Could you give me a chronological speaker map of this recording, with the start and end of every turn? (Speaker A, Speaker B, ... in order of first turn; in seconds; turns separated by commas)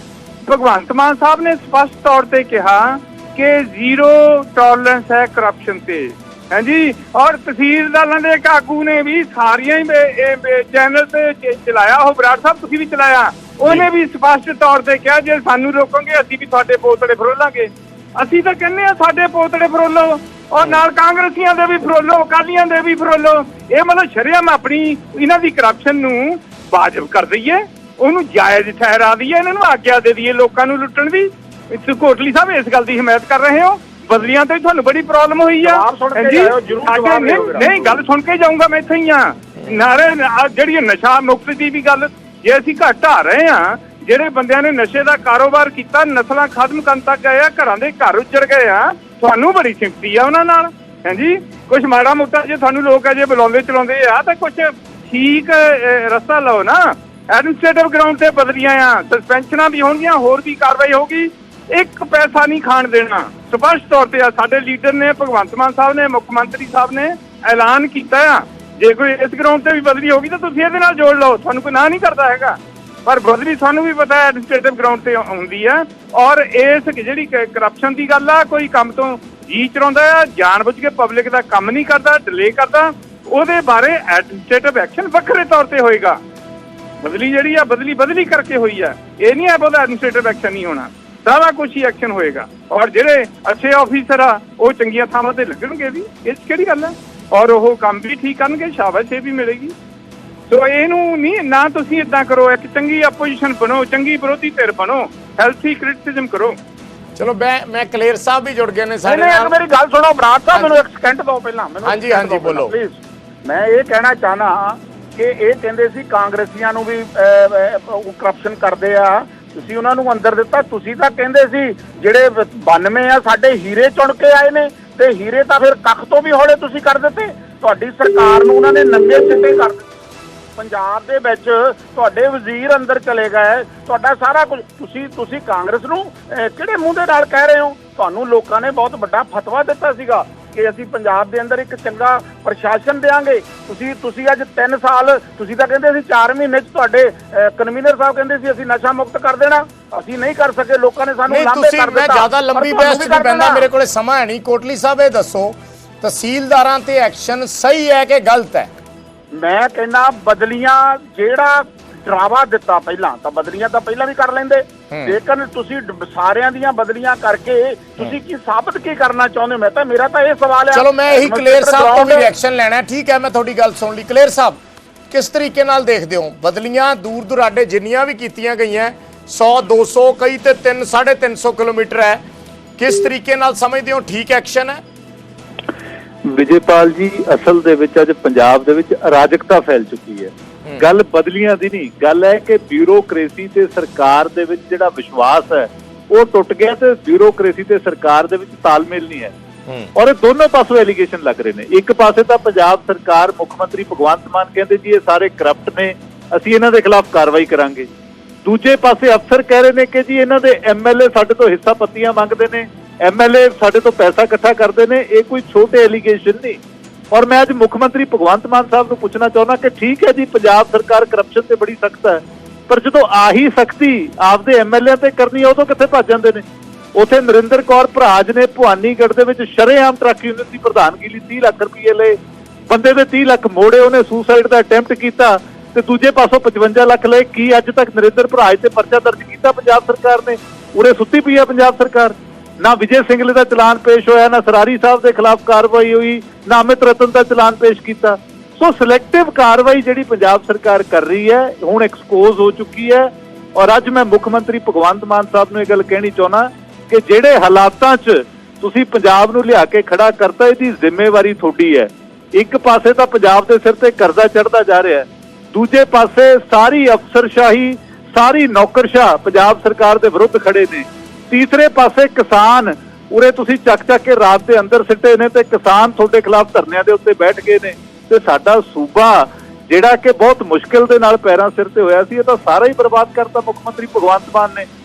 Speaker A: 0.4-86.2, Speaker B: 35.6-38.0, Speaker A: 87.0-99.7, Speaker A: 100.5-106.6, Speaker C: 107.2-109.5, Speaker B: 109.0-129.8, Speaker C: 111.8-112.7, Speaker B: 130.6-153.7, Speaker C: 151.3-158.7, Speaker B: 159.3-172.3, Speaker C: 164.9-165.1, Speaker C: 170.7-174.6, Speaker C: 175.1-182.2, Speaker C: 182.8-184.8, Speaker D: 186.2-199.3, Speaker D: 199.9-207.9, Speaker D: 208.4-216.6, Speaker D: 217.1-232.2, Speaker D: 232.7-284.7